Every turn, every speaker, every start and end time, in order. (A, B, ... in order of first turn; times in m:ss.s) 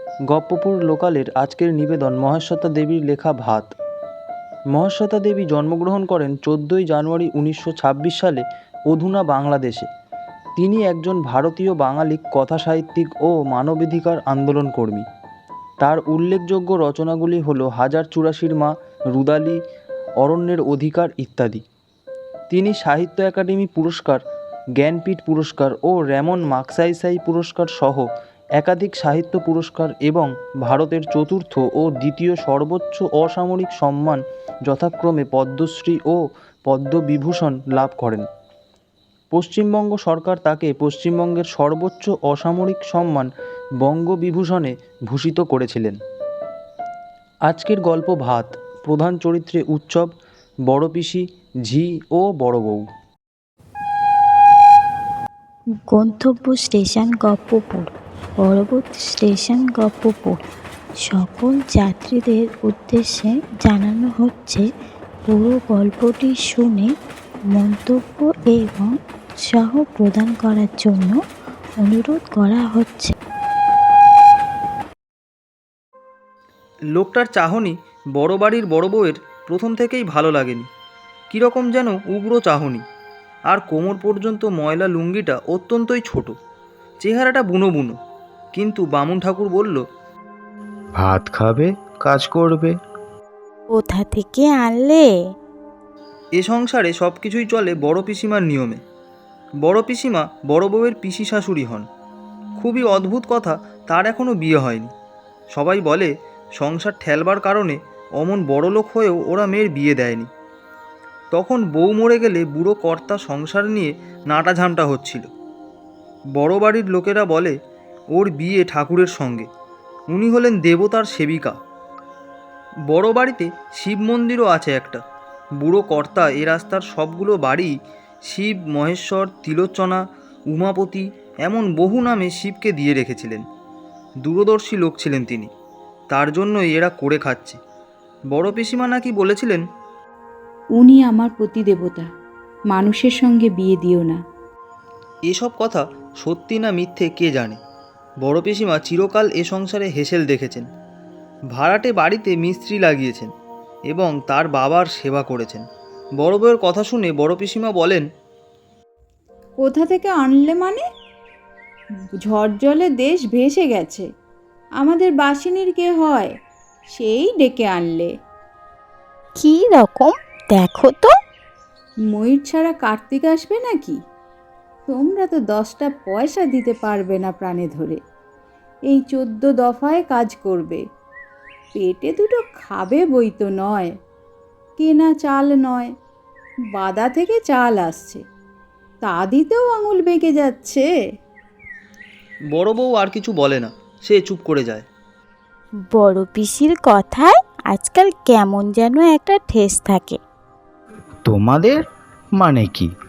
0:00.3-0:03.7 A
0:04.7-0:09.9 A
0:10.6-0:15.1 A
0:15.8-0:19.6 A
0:20.2-0:21.6 A
0:22.5-0:24.2 A
0:24.8-0:28.1 A
0:28.6-0:38.3 A
0:39.3-0:43.3 A
0:43.8-0:46.0 A
0:47.4-0:50.1 A
0:50.7-0:52.9 A
0:55.9-1:00.4 B
1:01.0-1:04.7 B
1:05.3-1:06.9 B
1:07.5-1:11.2 B
1:11.8-1:13.1 B
1:17.0-1:20.7 A
1:21.3-1:22.8 A
1:23.5-1:26.4 A
1:27.0-1:28.0 A
1:28.5-1:29.8 A
1:31.0-1:32.8 C
1:33.7-1:35.1 B
1:36.4-1:38.8 A
1:39.6-1:41.9 A
1:42.6-1:44.9 A
1:45.5-1:50.3 A
1:51.3-1:55.3 A
1:56.4-1:57.6 A
1:58.1-1:59.5 A
2:00.1-2:01.6 A
2:02.9-2:05.0 A
2:05.6-2:07.7 A
2:08.3-2:13.4 A
2:14.2-2:15.5 A
2:16.1-2:17.6 A
2:18.3-2:19.6 A
2:20.8-2:22.1 D
2:22.7-2:24.2 D
2:25.3-2:27.6 A
2:28.2-2:30.7 A
2:31.5-2:33.3 A
2:33.9-2:35.6 A
2:36.2-2:38.1 A
2:39.6-2:40.8 D
2:42.2-2:44.0 D
2:44.8-2:46.3 D
2:46.9-2:48.1 D
2:49.4-2:51.1 B
2:52.1-2:54.0 D
2:54.9-2:58.0 D
2:58.9-3:00.8 D
3:01.8-3:03.9 D
3:04.8-3:05.9 D
3:06.7-3:08.2 D
3:09.0-3:10.9 D
3:12.5-3:14.9 A
3:15.9-3:20.2 B
3:21.3-3:21.8 C
3:22.4-3:22.9 C